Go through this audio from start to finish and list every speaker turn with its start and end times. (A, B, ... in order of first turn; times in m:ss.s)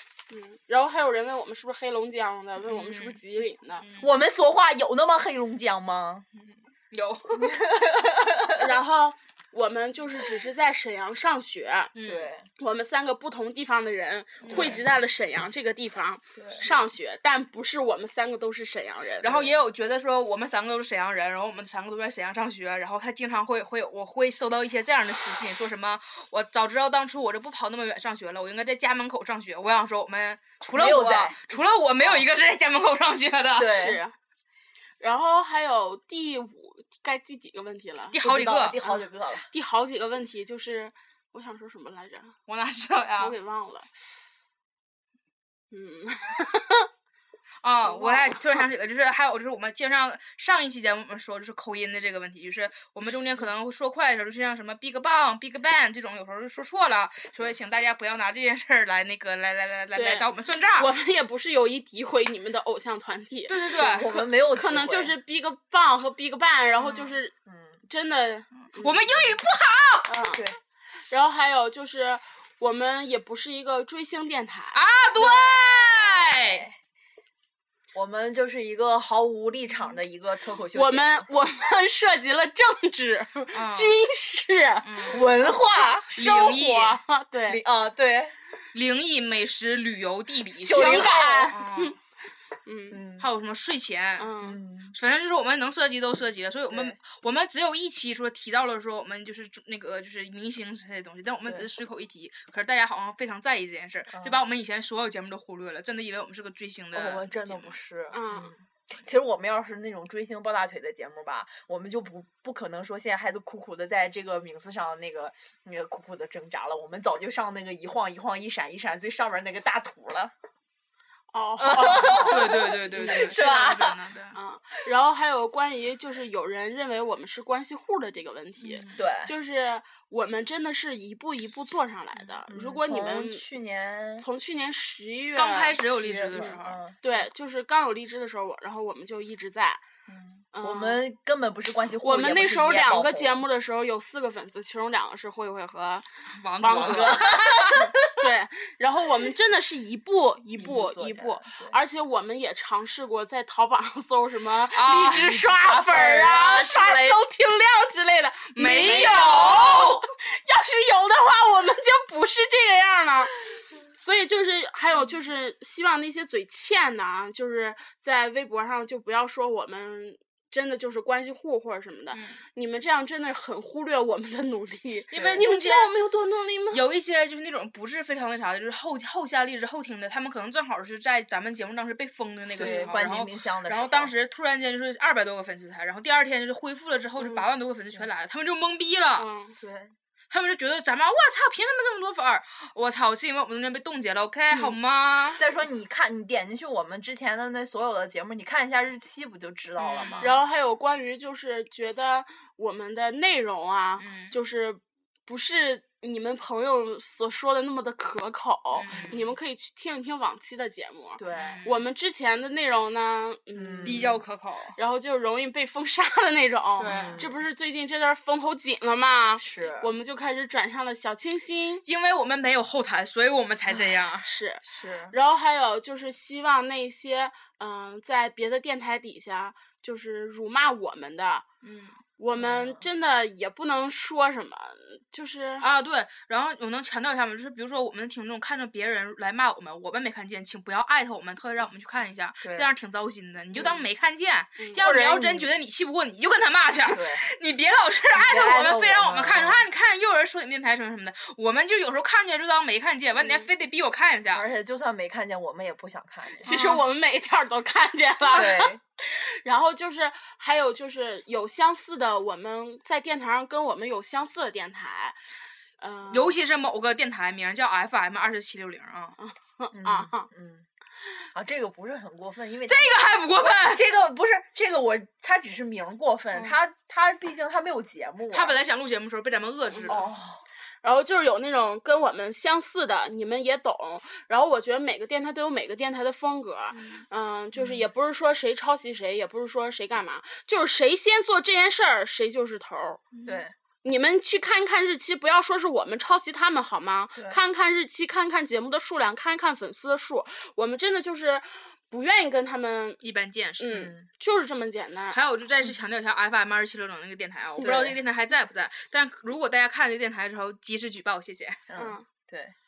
0:00.3-0:03.8 A
0:02.6-0:03.2 B
0:03.8-0:04.1 B
0:04.0-0:06.3 C
0:06.4-0:07.6 B
0:07.3-0:08.6 C
0:08.6-0:11.9 A
0:12.0-0:12.3 B
0:12.0-0:12.5 C
0:12.6-0:19.5 A
0:14.4-0:14.8 B
0:14.5-0:14.8 C
0:16.4-0:16.7 C
0:19.2-0:33.8 B
0:30.7-0:31.4 C
0:32.0-0:32.2 C
0:33.6-0:34.0 C
0:33.7-0:34.2 A
0:35.0-0:38.2 A
0:38.1-0:38.8 B
0:38.2-0:39.5 C
0:38.8-0:42.4 A
0:42.5-0:43.4 B
0:43.2-0:43.9 A
0:45.7-0:46.9 A
0:47.6-1:00.9 B
0:47.9-0:48.6 A
0:59.9-1:04.0 A
1:03.5-1:04.3 B
1:03.8-1:05.1 C
1:04.5-1:07.3 A
1:07.4-1:07.8 C
1:07.9-1:09.1 A
1:08.6-1:10.1 B
1:10.1-1:10.4 A
1:11.1-1:14.8 A
1:14.7-1:16.6 B
1:15.2-1:16.8 C
1:17.9-1:21.3 C
1:20.7-1:25.2 A
1:23.5-1:24.0 B
1:24.8-1:25.3 B
1:25.1-1:26.1 C
1:26.1-1:27.6 A
1:26.1-1:27.0 B
1:27.5-1:28.4 C
1:28.7-1:32.0 B
1:30.6-1:31.5 C
1:30.7-1:32.0 A
1:32.7-1:33.0 A
1:32.9-1:33.3 C
1:33.2-1:34.4 B
1:34.2-1:34.6 A
1:34.4-1:35.0 C
1:34.9-1:47.8 B
1:36.7-1:37.0 C
1:44.1-1:44.4 C
1:46.9-2:00.3 C
1:48.1-1:48.5 A
2:01.3-2:03.1 A
2:01.6-2:04.0 C
2:02.1-2:04.4 B
2:04.3-2:13.4 A
2:08.6-2:09.0 B
2:09.0-2:09.3 C
2:12.5-2:14.3 C
2:14.2-2:15.8 A
2:15.4-2:16.8 B
2:16.0-2:17.0 C
2:16.3-2:19.8 A
2:20.1-2:23.4 C
2:20.5-2:21.0 A
2:22.0-2:26.1 A
2:26.3-2:27.7 B
2:26.6-2:43.4 A
2:26.6-2:28.2 C
2:30.6-2:31.8 C
2:34.7-2:35.4 B
2:35.2-2:37.2 C
2:38.6-2:40.0 B
2:43.9-2:56.8 A
2:52.1-2:52.4 B
2:55.1-2:55.9 B
2:55.1-2:55.4 C
2:56.7-3:09.3 B
3:02.6-3:04.1 C
3:02.6-3:02.9 A
3:07.2-3:07.5 A
3:09.2-3:09.6 A
3:09.6-3:10.0 C
3:10.3-3:15.4 B
3:15.4-3:20.4 C
3:19.8-3:20.3 B
3:20.2-3:34.2 A
3:24.0-3:24.3 B
3:28.7-3:29.2 B
3:28.9-3:29.2 C
3:31.2-3:31.6 C
3:31.3-3:31.8 B
3:33.5-3:34.2 C
3:33.8-3:34.8 B
3:34.8-3:41.8 A
3:36.8-3:37.3 C
3:36.8-3:37.2 B
3:39.4-3:39.9 C
3:41.9-3:44.3 B
3:44.2-3:51.4 A
3:44.6-3:45.2 C
3:51.6-3:52.0 B
3:52.2-3:55.7 A
3:52.4-3:52.9 C
3:55.6-4:14.5 B
4:02.4-4:02.7 C
4:03.6-4:03.8 C
4:04.8-4:05.5 C
4:06.9-4:07.3 C
4:08.2-4:09.6 C
4:13.2-4:13.5 A
4:14.3-4:16.5 C
4:16.4-4:25.2 A
4:16.4-4:16.8 B
4:18.3-4:18.8 C
4:25.8-4:26.4 A
4:26.1-4:29.2 B
4:29.2-4:30.3 A
4:29.7-4:30.6 C
4:31.3-4:32.9 C
4:32.7-4:33.8 B
4:33.4-4:38.6 C
4:36.3-4:36.6 B
4:38.3-4:40.0 B
4:39.7-4:40.0 A
4:39.9-4:40.4 C
4:40.8-4:53.0 A
4:47.6-4:47.9 C
4:53.1-4:53.4 B
4:53.2-4:53.5 C
4:53.8-5:03.0 A
5:03.0-5:03.7 B
5:03.6-5:05.2 A
5:03.7-5:04.1 C
5:05.1-5:11.6 B
5:07.6-5:08.0 C
5:11.7-5:12.6 C
5:11.8-5:12.1 A